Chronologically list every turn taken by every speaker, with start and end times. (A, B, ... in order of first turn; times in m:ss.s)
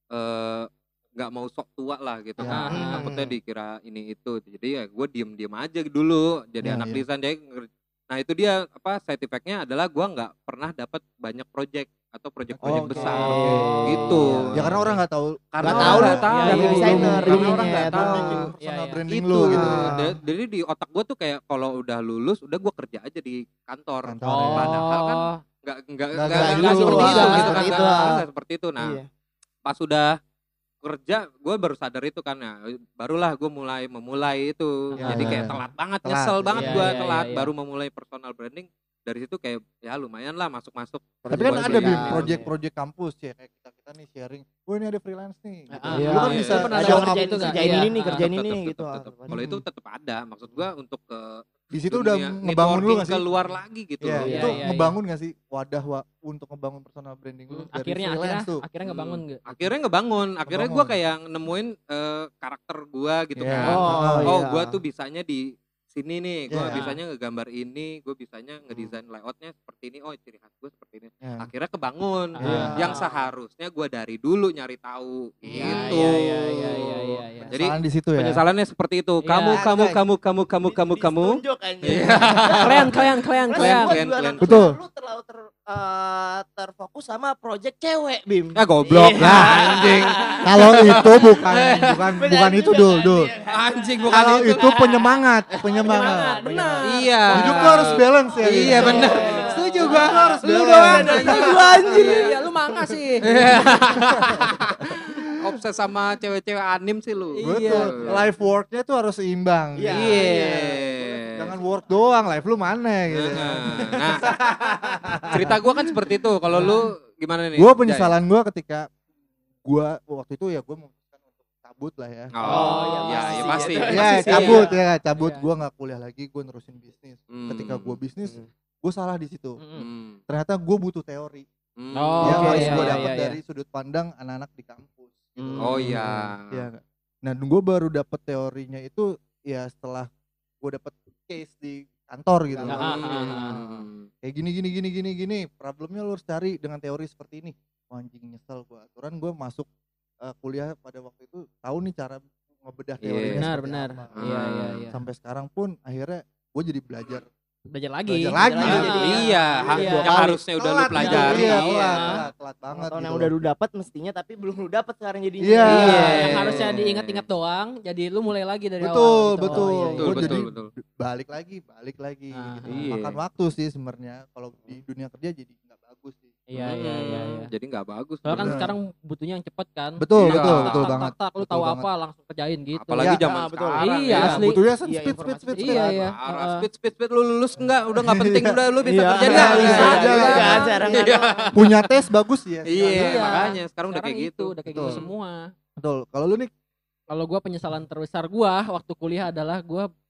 0:00.1-0:15.0 A
0:02.4-0:02.9 B
0:02.4-0:03.0 C
0:02.7-0:03.4 D
0:06.6-0:07.0 B
0:12.5-0:14.0 B
0:12.6-0:14.5 D
0:13.6-0:14.5 C
0:14.5-0:20.0 B
0:15.5-0:18.5 A
0:15.6-0:18.5 D
0:16.2-0:19.0 C
0:19.1-0:29.0 A
0:19.5-0:20.1 D
0:24.0-0:24.8 B
0:24.3-0:25.4 C
0:26.2-0:28.2 B
0:26.4-0:28.1 D
0:26.4-0:28.0 C
0:28.8-0:29.0 D
0:29.7-0:30.1 A
0:30.8-0:42.4 A
0:34.9-0:35.4 C
0:35.0-0:37.0 B
0:36.5-0:37.5 C
0:41.3-0:47.8 B
0:41.5-0:42.1 D
0:41.6-0:42.5 C
0:45.7-0:48.2 C
0:45.9-0:49.4 D
0:46.1-0:54.5 A
0:49.3-0:49.6 B
0:51.7-0:53.3 B
0:54.0-0:58.6 B
0:54.1-0:54.6 D
0:54.2-0:55.0 C
0:57.5-0:59.4 C
0:58.8-1:23.0 A
1:00.4-1:01.0 B
1:03.4-1:04.4 B
1:03.6-1:04.1 C
1:03.6-1:04.8 D
1:06.5-1:06.8 B
1:06.7-1:07.0 C
1:11.2-1:11.5 B
1:12.4-1:13.0 C
1:12.4-1:12.9 B
1:12.6-1:13.0 D
1:15.5-1:16.2 D
1:15.6-1:17.5 C
1:17.5-1:18.4 B
1:19.2-1:19.6 C
1:19.5-1:20.0 B
1:20.6-1:22.9 D
1:22.4-1:24.0 C
1:23.4-1:31.1 D
1:23.6-1:24.7 A
1:24.4-1:24.8 B
1:28.5-1:32.0 A
1:29.0-1:29.9 B
1:30.4-1:33.3 B
1:31.8-1:35.1 D
1:33.5-1:34.8 A
1:34.1-1:41.6 B
1:35.6-1:36.6 D
1:35.8-1:37.9 C
1:36.8-1:42.4 A
1:38.3-1:42.2 D
1:38.8-1:40.0 C
1:41.9-1:43.2 C
1:43.2-1:44.9 A
1:45.4-1:48.2 A
1:47.4-1:47.9 C
1:47.4-1:56.8 B
1:48.0-1:48.3 D
1:49.8-1:51.5 D
1:49.9-1:51.5 A
1:53.1-1:54.3 A
1:53.7-1:55.2 D
1:55.3-1:58.2 A
1:57.6-1:58.9 B
1:59.6-2:02.4 B
2:02.3-2:04.7 A
2:02.4-2:04.7 D
2:02.4-2:05.5 C
2:03.8-2:09.6 B
2:07.3-2:08.0 A
2:09.6-2:09.9 C
2:09.8-2:10.2 A
2:10.3-2:11.5 B
2:11.8-2:13.0 A
2:12.0-2:13.4 C
2:12.2-2:20.1 B
2:12.2-2:12.9 D
2:15.4-2:15.8 C
2:15.6-2:16.7 A
2:20.6-2:29.7 B
2:22.7-2:23.5 C
2:22.7-2:24.1 A
2:30.2-2:34.3 B
2:33.0-2:33.5 A
2:33.4-2:35.0 C
2:34.2-2:34.9 A
2:34.9-2:37.3 B
2:37.7-2:39.2 C
2:38.1-2:39.0 B
2:38.4-2:40.2 D
2:38.6-2:41.7 A
2:39.7-2:40.1 C
2:40.0-2:43.3 B
2:41.0-2:42.2 C
2:41.0-2:42.2 D
2:42.7-2:46.7 D
2:45.4-2:46.4 B
2:45.6-2:47.2 A
2:45.7-2:50.4 C
2:48.8-2:56.4 B
2:49.5-2:50.7 A
2:52.3-2:52.9 C
2:52.7-2:53.2 A
2:56.5-2:57.5 C
2:56.6-2:58.7 A
2:58.2-3:03.2 C
2:58.3-2:58.7 B
3:00.0-3:01.9 B
3:00.2-3:01.1 A
3:02.7-3:04.4 A
3:03.0-3:03.3 B
3:03.2-3:04.1 D
3:03.8-3:04.6 C
3:04.1-3:06.1 B
3:04.8-3:05.9 D
3:05.6-3:06.6 C
3:05.7-3:11.9 A
3:07.9-3:08.6 B
3:08.8-3:11.5 D
3:09.2-3:10.7 B
3:09.3-3:11.4 C
3:11.5-3:13.5 B
3:12.7-3:15.1 A
3:12.9-3:15.5 C
3:14.7-3:15.0 B
3:15.8-3:16.5 B
3:17.1-3:19.9 C